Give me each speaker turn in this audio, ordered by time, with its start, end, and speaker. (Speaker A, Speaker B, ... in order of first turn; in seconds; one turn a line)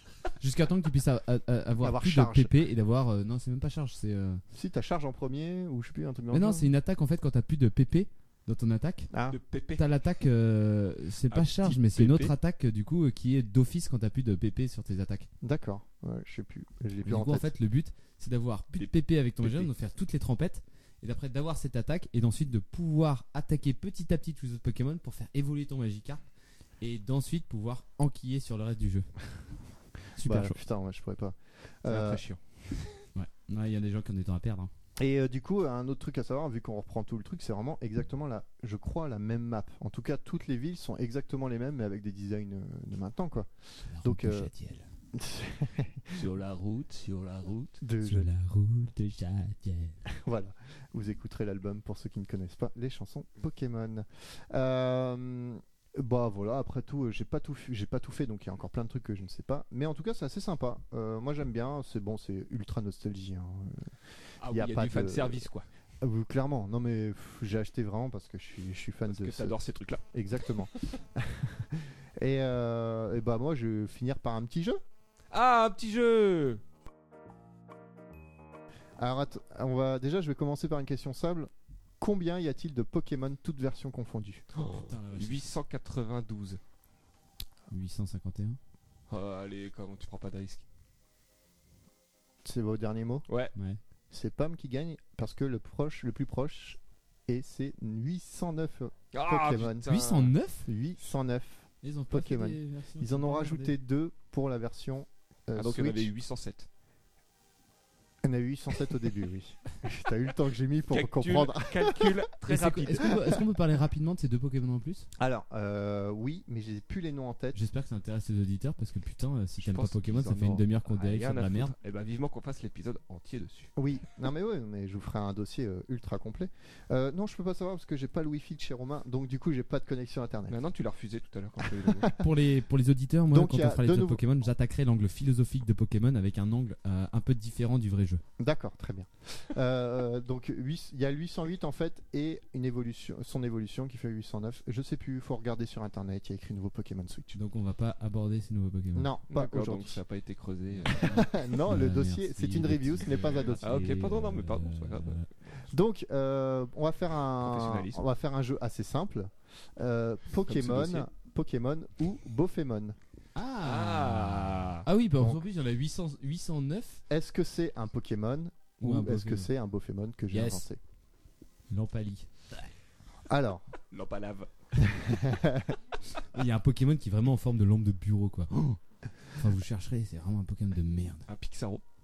Speaker A: 0.4-4.4
Speaker B: 1.8-2.6
Speaker B: 4.5-6.7
Speaker A: 6.3-9.1
Speaker B: 9.1-9.4
Speaker C: 9.3-9.8
Speaker A: 9.8-15.3
Speaker C: 11.3-12.3
Speaker B: 15.4-17.5
Speaker A: 17.0-26.2
Speaker C: 18.7-19.7
Speaker A: 26.8-29.1
Speaker A: 30.2-30.6
Speaker B: 30.2-32.2
Speaker C: 31.9-32.4
Speaker A: 33.1-34.7
Speaker B: 35.0-43.5
Speaker A: 43.9-44.9
Speaker B: 44.0-44.5
Speaker B: 45.1-46.3
Speaker C: 46.1-47.7
Speaker B: 47.8-48.3
Speaker A: 48.0-50.0
Speaker B: 50.1-63.9
Speaker C: 64.4-65.7
Speaker B: 64.4-65.5
Speaker B: 66.0-69.6
Speaker C: 69.1-70.0
Speaker B: 70.1-74.8
Speaker C: 75.3-76.6
Speaker B: 79.0-84.5
Speaker C: 84.5-86.6
Speaker A: 84.6-85.5
Speaker A: 87.7-88.6
Speaker C: 89.1-90.6
Speaker B: 92.4-93.3
Speaker C: 93.3-93.5
Speaker A: 93.5-93.8
Speaker B: 94.1-100.0
Speaker C: 99.1-100.3
Speaker A: 99.9-100.7
Speaker B: 100.7-106.1
Speaker A: 101.8-103.8
Speaker C: 105.6-106.7
Speaker B: 108.2-112.2
Speaker C: 110.9-113.2
Speaker A: 112.4-115.1
Speaker B: 113.0-113.4
Speaker B: 115.2-117.6
Speaker A: 117.5-121.7
Speaker C: 119.6-123.7
Speaker B: 123.8-130.6
Speaker C: 130.5-132.1
Speaker B: 131.6-132.3
Speaker A: 132.2-138.2
Speaker B: 133.3-134.2
Speaker B: 138.4-147.4
Speaker A: 147.3-149.1
Speaker B: 148.9-150.0
Speaker C: 149.3-151.1
Speaker A: 150.8-155.3
Speaker B: 150.9-153.8
Speaker C: 153.6-155.2
Speaker B: 155.7-163.0
Speaker C: 157.4-158.0
Speaker C: 160.5-161.1
Speaker A: 163.3-167.0
Speaker C: 163.6-164.9
Speaker B: 165.2-165.4
Speaker B: 167.1-170.8
Speaker A: 168.8-169.5
Speaker A: 170.3-170.7
Speaker A: 171.7-172.3
Speaker B: 173.3-173.7
Speaker C: 173.9-174.5
Speaker B: 174.8-175.8
Speaker A: 176.3-181.3
Speaker C: 181.3-181.8